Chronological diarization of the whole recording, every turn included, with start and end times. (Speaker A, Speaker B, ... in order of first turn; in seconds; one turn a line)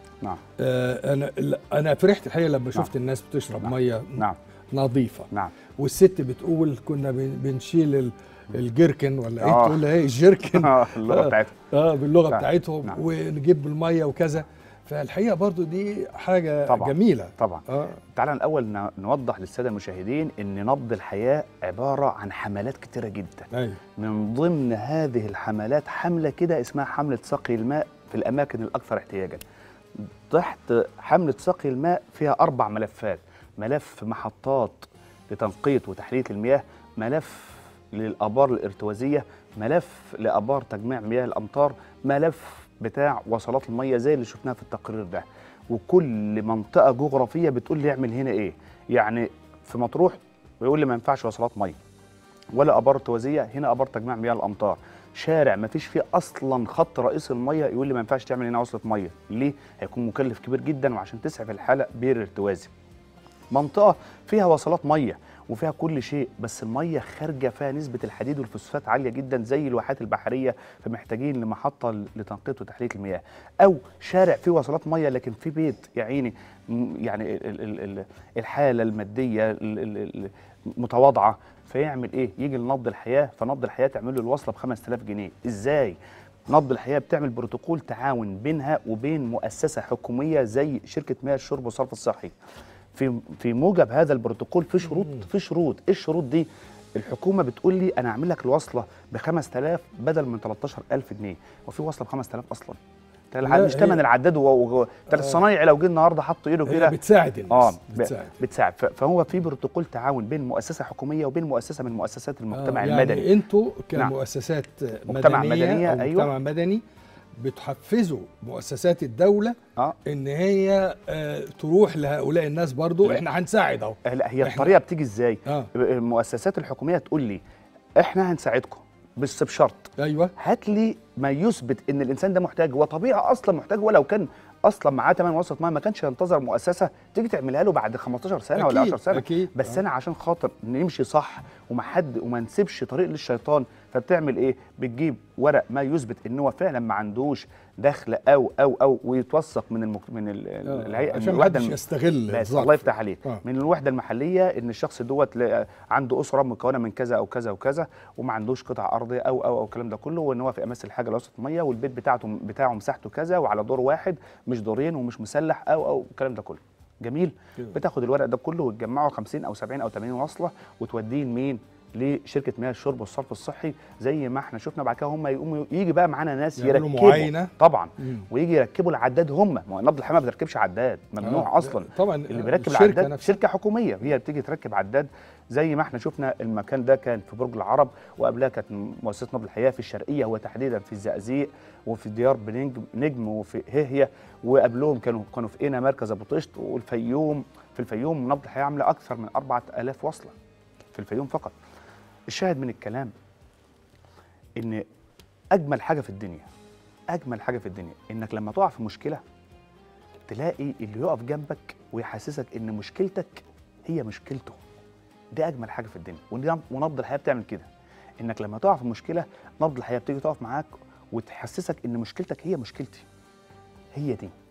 Speaker A: 0.6-18.0
Speaker B: 3.6-4.4
Speaker B: 9.4-9.8
Speaker B: 10.5-11.6
Speaker B: 12.3-13.0
Speaker B: 16.7-29.4
Speaker A: 23.5-23.8
Speaker B: 30.0-51.8
Speaker B: 52.5-62.7
Speaker B: 63.5-86.0
Speaker B: 86.5-92.3
Speaker B: 93.0-102.8
Speaker B: 103.3-107.0
Speaker A: 103.4-104.0
Speaker A: 106.7-108.4
Speaker B: 107.5-113.3
Speaker A: 112.5-116.8
Speaker B: 115.1-116.3
Speaker A: 117.4-124.7
Speaker B: 124.0-127.4
Speaker B: 128.0-200.3
Speaker A: 130.0-130.3
Speaker A: 138.6-139.8
Speaker A: 150.7-153.4
Speaker A: 176.6-178.3
Speaker A: 181.2-183.4
Speaker B: 200.9-201.5
Speaker B: 202.3-203.1
Speaker B: 204.6-204.9
Speaker B: 205.5-206.5
Speaker B: 207.1-209.2
Speaker B: 210.3-214.6
Speaker B: 215.3-217.7
Speaker B: 218.2-223.1
Speaker B: 223.9-224.3